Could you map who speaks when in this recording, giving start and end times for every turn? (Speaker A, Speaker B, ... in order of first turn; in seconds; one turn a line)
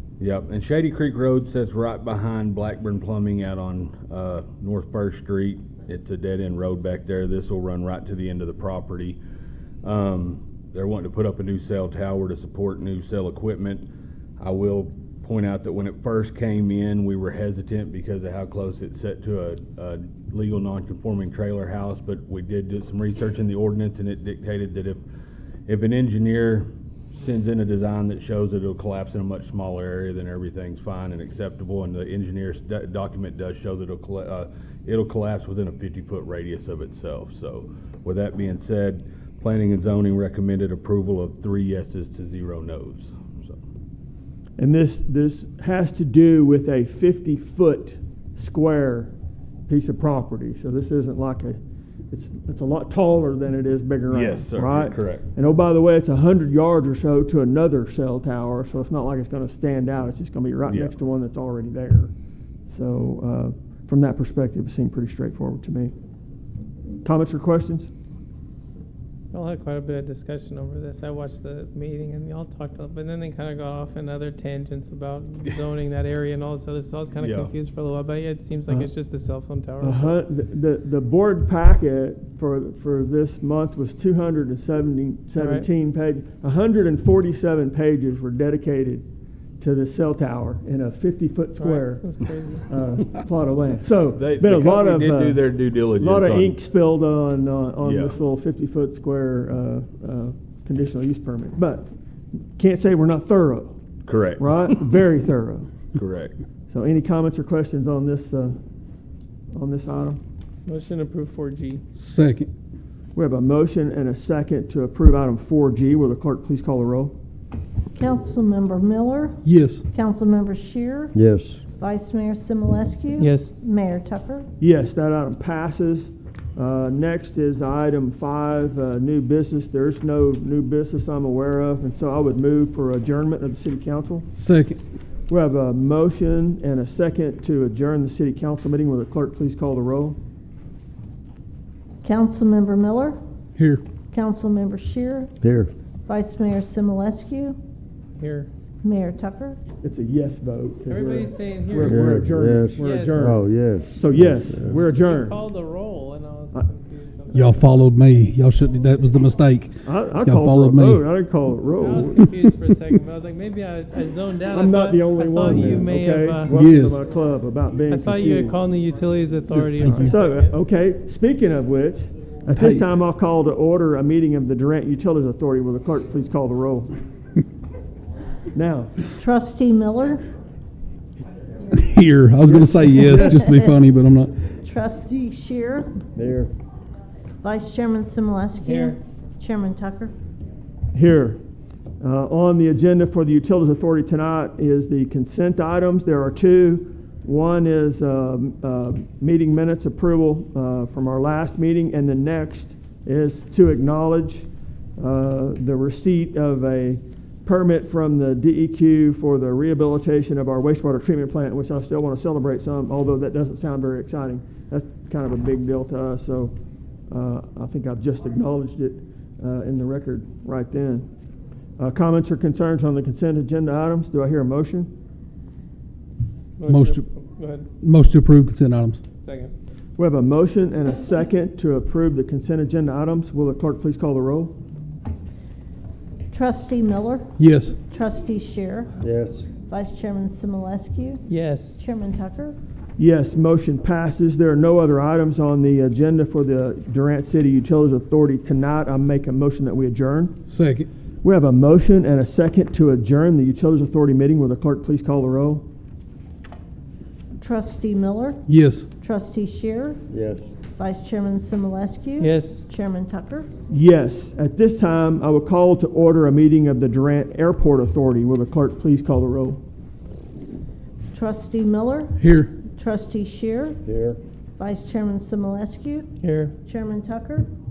Speaker A: 0.2-9.2
Speaker A: 9.8-13.8
Speaker A: 14.4-25.0
Speaker A: 25.7-43.6
Speaker B: 44.6-49.1
Speaker B: 49.7-51.6
Speaker B: 52.1-62.1
Speaker A: 54.1-55.3
Speaker A: 60.7-60.9
Speaker B: 62.7-65.9
Speaker B: 67.0-67.9
Speaker C: 69.3-80.1
Speaker A: 77.2-77.5
Speaker B: 79.8-89.0
Speaker C: 85.3-85.7
Speaker B: 89.6-101.9
Speaker C: 91.6-92.7
Speaker A: 94.1-96.6
Speaker A: 97.8-98.2
Speaker B: 102.6-103.8
Speaker A: 104.0-104.8
Speaker B: 104.4-105.7
Speaker A: 105.9-106.3
Speaker B: 106.7-108.6
Speaker B: 109.5-110.2
Speaker C: 110.7-111.8
Speaker D: 111.9-112.5
Speaker B: 113.1-117.1
Speaker E: 117.9-121.2
Speaker D: 119.4-119.8
Speaker F: 121.1-121.6
Speaker E: 121.7-124.5
Speaker C: 123.2-123.5
Speaker B: 124.6-134.3
Speaker D: 134.3-134.8
Speaker B: 135.3-140.2
Speaker E: 142.0-143.2
Speaker D: 143.6-143.8
Speaker E: 144.1-145.3
Speaker F: 145.4-145.7
Speaker E: 146.1-147.6
Speaker C: 148.2-148.5
Speaker E: 148.8-149.6
Speaker B: 149.8-153.4
Speaker C: 150.9-152.2
Speaker F: 151.8-154.8
Speaker C: 152.7-153.2
Speaker B: 153.9-155.4
Speaker C: 154.8-157.8
Speaker D: 157.3-161.1
Speaker B: 159.8-162.2
Speaker C: 161.8-166.5
Speaker B: 164.5-168.6
Speaker D: 166.5-167.0
Speaker C: 167.9-170.5
Speaker D: 169.5-170.2
Speaker B: 170.0-177.0
Speaker D: 172.5-172.8
Speaker B: 178.5-179.0
Speaker E: 179.1-180.2
Speaker D: 181.7-184.3
Speaker E: 182.9-183.8
Speaker E: 184.6-186.0
Speaker F: 186.1-186.5
Speaker E: 187.4-190.1
Speaker C: 188.6-189.0
Speaker B: 190.9-191.4
Speaker B: 192.0-216.5
Speaker B: 217.1-221.1
Speaker B: 221.8-224.9
Speaker C: 226.6-227.7
Speaker D: 226.7-227.1
Speaker D: 227.8-229.0
Speaker C: 229.2-229.5
Speaker B: 230.0-234.5
Speaker E: 236.3-238.9
Speaker D: 237.4-237.8
Speaker F: 239.0-239.4
Speaker E: 239.6-241.2
Speaker C: 241.3-241.8
Speaker E: 241.8-242.6
Speaker B: 243.0-250.4
Speaker D: 250.5-250.9
Speaker B: 251.2-255.6
Speaker E: 257.4-258.4
Speaker D: 258.5-258.9
Speaker E: 259.0-260.0
Speaker F: 260.1-260.5
Speaker E: 260.7-263.5
Speaker C: 262.2-262.6
Speaker B: 263.7-269.6
Speaker E: 271.1-273.8
Speaker D: 272.2-272.5
Speaker F: 273.8-274.2
Speaker E: 274.6-277.5
Speaker C: 276.2-276.5